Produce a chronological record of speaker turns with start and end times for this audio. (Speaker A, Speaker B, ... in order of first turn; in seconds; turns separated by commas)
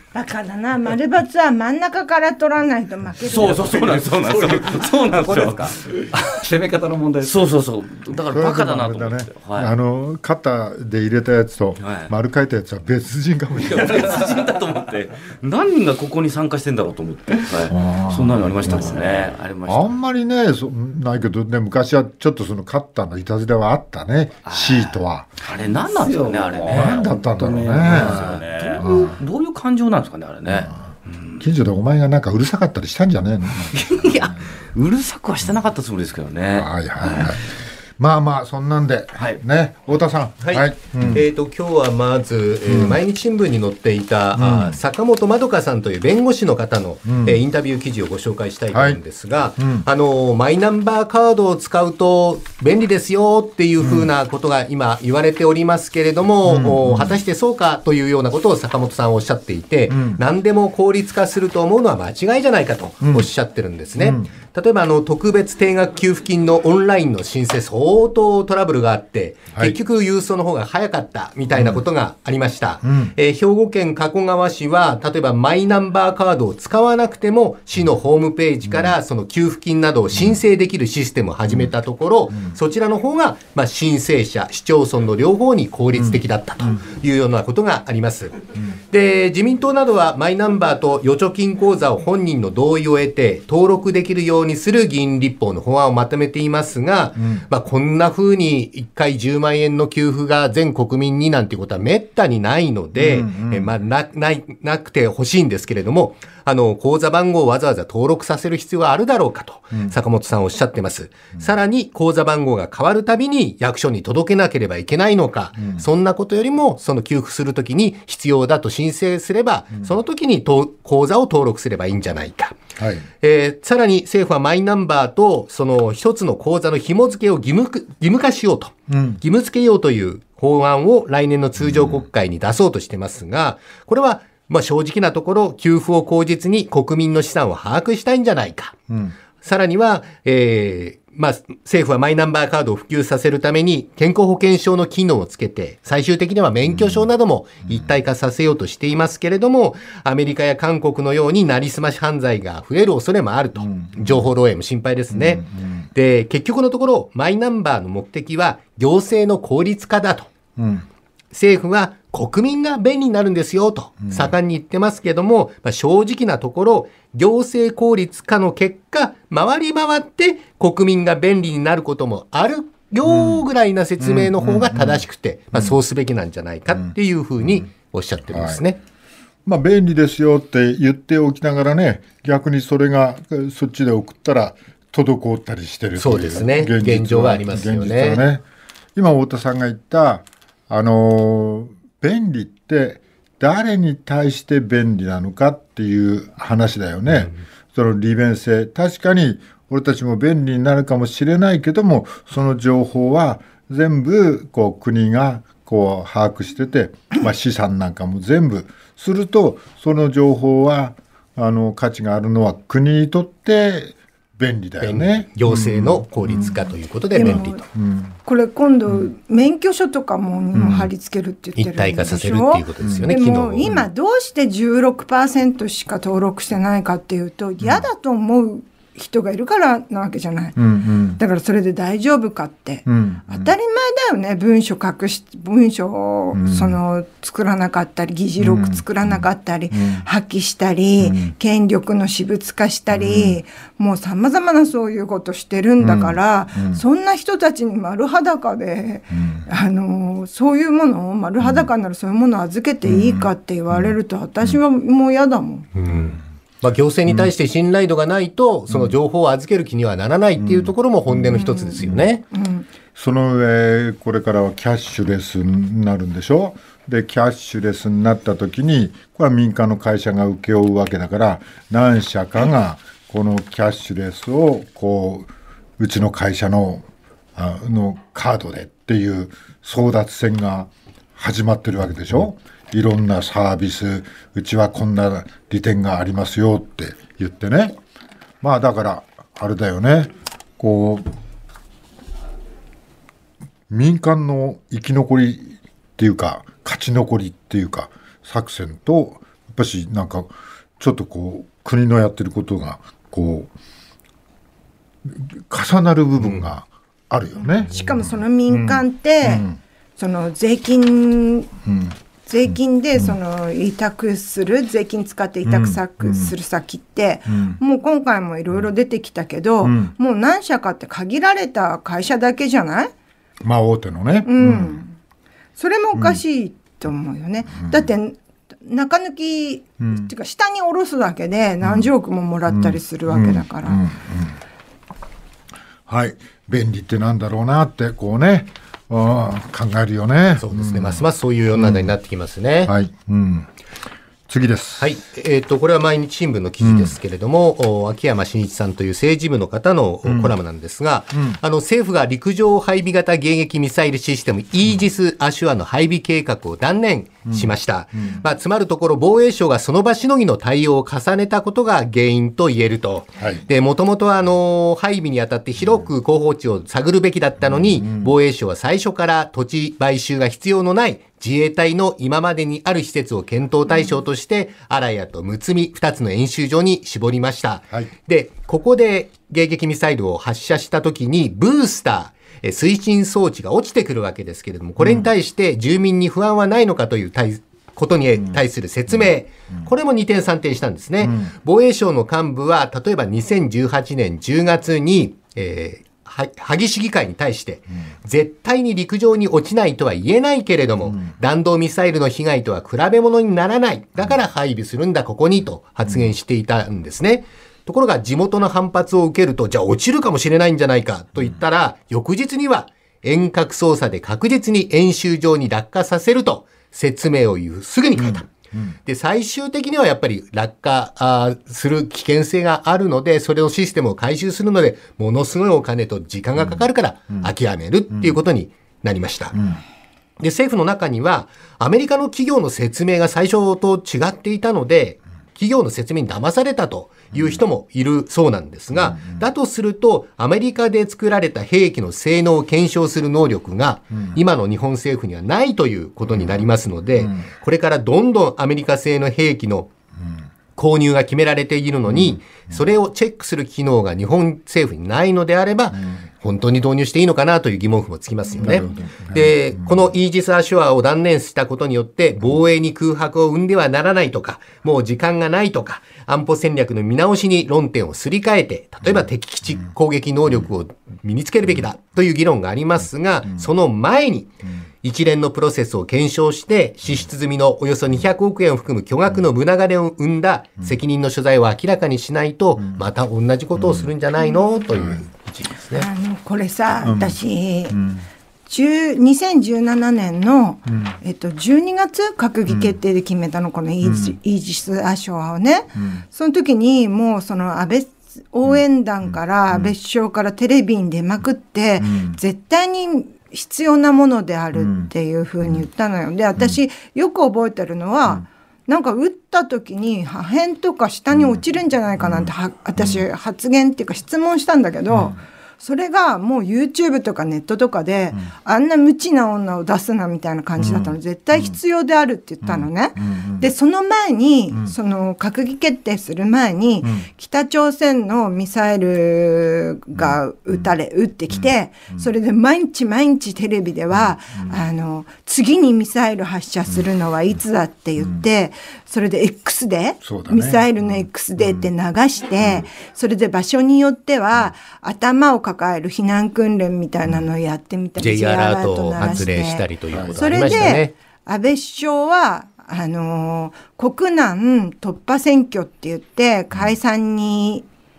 Speaker A: 0.1-3.7, Speaker B: 3.2-5.9, Speaker C: 3.3-7.5, Speaker B: 7.2-9.7, Speaker D: 8.3-14.2, Speaker B: 11.8-12.1, Speaker B: 13.6-20.0, Speaker D: 17.7-25.3, Speaker B: 24.4-27.2, Speaker C: 25.8-29.0, Speaker D: 26.6-29.1, Speaker B: 27.7-31.4, Speaker D: 30.5-30.8, Speaker D: 31.4-34.5, Speaker B: 33.6-37.4, Speaker D: 36.5-41.3, Speaker E: 40.4-122.6, Speaker D: 42.6-43.0, Speaker D: 44.3-44.8, Speaker D: 47.0-47.4, Speaker D: 48.7-49.0, Speaker D: 49.6-49.9, Speaker D: 53.8-54.1, Speaker D: 56.4-57.2, Speaker D: 59.9-60.2, Speaker D: 63.0-63.3, Speaker D: 64.0-64.3, Speaker D: 71.5-71.8, Speaker D: 72.8-73.1, Speaker D: 78.7-79.0, Speaker D: 81.5-81.7, Speaker D: 82.3-82.6, Speaker D: 85.9-86.8, Speaker D: 97.2-97.4, Speaker D: 102.9-103.8, Speaker D: 115.6-115.9, Speaker D: 122.8-123.1, Speaker E: 123.2-138.8, Speaker D: 128.9-129.2, Speaker D: 138.9-139.2, Speaker E: 139.4-160.3, Speaker D: 146.7-147.1, Speaker D: 153.6-154.3, Speaker D: 155.1-155.9, Speaker D: 160.6-160.8, Speaker E: 161.3-178.8, Speaker D: 164.1-164.3, Speaker D: 173.0-173.4, Speaker D: 174.0-175.8, Speaker D: 176.7-177.7, Speaker D: 178.3-178.6, Speaker D: 179.4-188.4, Speaker E: 186.0-188.2, Speaker D: 188.9-216.6, Speaker E: 214.8-217.6, Speaker A: 217.1-217.7, Speaker D: 217.2-218.2, Speaker A: 218.2-230.6, Speaker D: 220.5-220.9, Speaker E: 221.6-223.8, Speaker D: 222.8-223.8, Speaker D: 227.6-227.9, Speaker D: 230.6-231.2, Speaker A: 231.1-255.7, Speaker D: 232.8-233.5, Speaker D: 236.3-236.8, Speaker D: 238.4-240.1, Speaker D: 241.0-241.3, Speaker D: 242.9-243.4, Speaker D: 245.8-246.8, Speaker D: 249.1-249.4, Speaker D: 251.4-251.7, Speaker D: 252.8-254.6, Speaker E: 255.7-262.2, Speaker D: 257.1-257.3, Speaker D: 258.7-258.9, Speaker D: 260.4-262.1, Speaker A: 261.3-262.7, Speaker D: 262.9-287.8, Speaker D: 288.4-291.1, Speaker D: 293.7-303.5, Speaker D: 305.1-309.6, Speaker A: 307.4-311.5, Speaker D: 311.6-311.9, Speaker A: 312.2-322.9, Speaker D: 312.5-313.1, Speaker D: 315.4-316.3, Speaker D: 317.3-317.6, Speaker D: 319.6-319.9, Speaker D: 323.4-324.8, Speaker A: 324.2-324.9, Speaker A: 325.6-333.8, Speaker D: 325.9-326.2, Speaker D: 327.6-327.9, Speaker D: 329.8-330.1, Speaker D: 331.6-331.9, Speaker D: 332.5-334.4, Speaker D: 335.9-341.9, Speaker E: 340.4-342.7, Speaker D: 342.6-343.5, Speaker D: 344.3-345.0, Speaker E: 344.8-418.3, Speaker D: 346.6-346.9, Speaker D: 350.0-350.4, Speaker D: 351.1-351.4, Speaker D: 357.3-358.2, Speaker D: 363.2-363.4, Speaker D: 367.4-368.1, Speaker D: 384.8-385.1, Speaker D: 391.0-391.3, Speaker D: 400.8-401.1, Speaker D: 417.9-418.7, Speaker E: 418.8-429.4, Speaker D: 426.4-426.6, Speaker D: 429.3-429.6, Speaker E: 430.2-449.7, Speaker D: 437.1-437.4, Speaker D: 438.7-439.2, Speaker D: 446.1-446.4, Speaker D: 447.0-447.3, Speaker E: 450.6-485.9, Speaker D: 451.9-452.6, Speaker D: 455.7-456.0, Speaker A: 458.4-458.9, Speaker D: 458.4-459.9, Speaker D: 483.6-483.9, Speaker D: 484.7-485.0, Speaker A: 485.7-487.8, Speaker D: 486.8-487.2, Speaker D: 487.7-488.0, Speaker A: 488.5-557.6, Speaker D: 490.7-490.9, Speaker D: 492.5-492.8, Speaker D: 493.8-494.2, Speaker D: 495.8-496.0, Speaker D: 501.8-502.2, Speaker D: 504.5-504.9, Speaker D: 511.1-511.4, Speaker D: 512.0-513.0, Speaker D: 514.9-515.2, Speaker D: 520.6-521.5, Speaker D: 522.4-523.5, Speaker D: 531.3-532.1, Speaker D: 533.9-534.6, Speaker D: 540.0-541.7, Speaker D: 542.4-542.6, Speaker E: 548.0-550.9, Speaker D: 549.0-549.3, Speaker D: 549.9-550.8